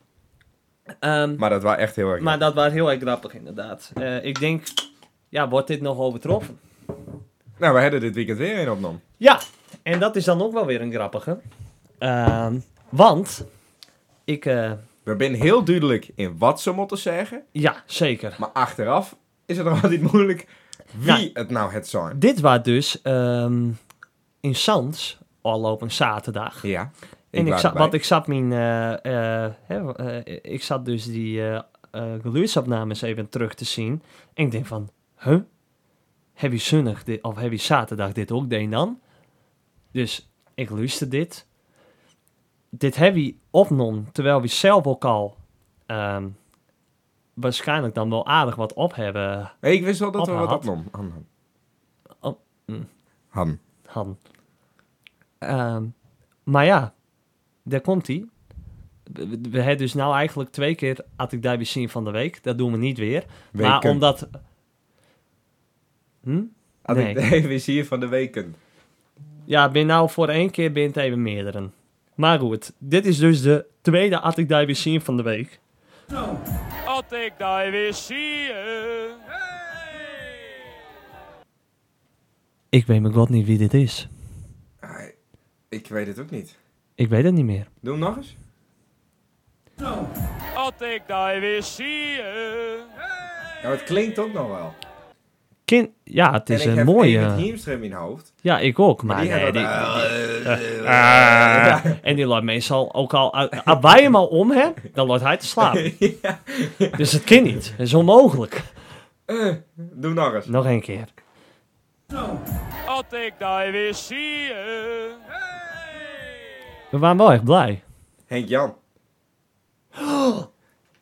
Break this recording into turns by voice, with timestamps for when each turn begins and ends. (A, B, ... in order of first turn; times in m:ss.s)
0:01.0-0:01.4 A
0:01.4-0:02.4 B
0:02.2-0:06.6 A
0:07.6-0:09.0 B
0:09.2-0:11.4 A
0:12.0-0:13.5 A
0:14.3-0:14.8 A
0:15.0-0:17.4 B
0:17.6-0:18.4 A
0:18.4-0:22.2 B
0:22.1-0:23.8 A
0:24.4-0:26.7 A
0:26.6-0:28.0 B
0:27.4-0:35.5 A
0:36.4-0:39.0 A
0:39.9-0:41.4 A
0:42.7-0:45.4 A
0:45.9-0:46.4 A
0:47.4-0:49.6 A
0:49.6-0:51.2 B
0:50.2-0:50.7 A
0:52.2-0:52.9 A
0:53.3-0:53.6 B
0:53.9-0:54.2 A
0:55.4-0:55.9 A
0:56.5-0:56.9 A
0:57.6-0:58.3 A
0:59.1-1:04.4 A
1:03.5-1:04.0 B
1:06.2-1:07.2 A
1:06.8-1:08.6 B
1:09.5-1:15.6 A
1:17.0-1:19.0 C
1:22.7-1:24.1 A
1:24.8-1:25.1 B
1:25.7-1:26.6 B
1:27.0-1:27.7 A
1:27.8-1:28.4 B
1:30.6-1:32.7 C
1:33.6-1:34.8 B
1:35.7-1:37.5 A
1:36.5-1:38.3 B
1:38.4-1:45.9 A
1:39.1-1:42.0 B
1:45.6-1:47.1 B
1:47.0-1:48.7 A
1:49.3-1:50.5 B
1:50.5-1:51.1 A
1:53.0-1:55.0 C
1:56.9-1:57.8 A
1:58.3-1:58.8 B
2:00.0-2:00.5 A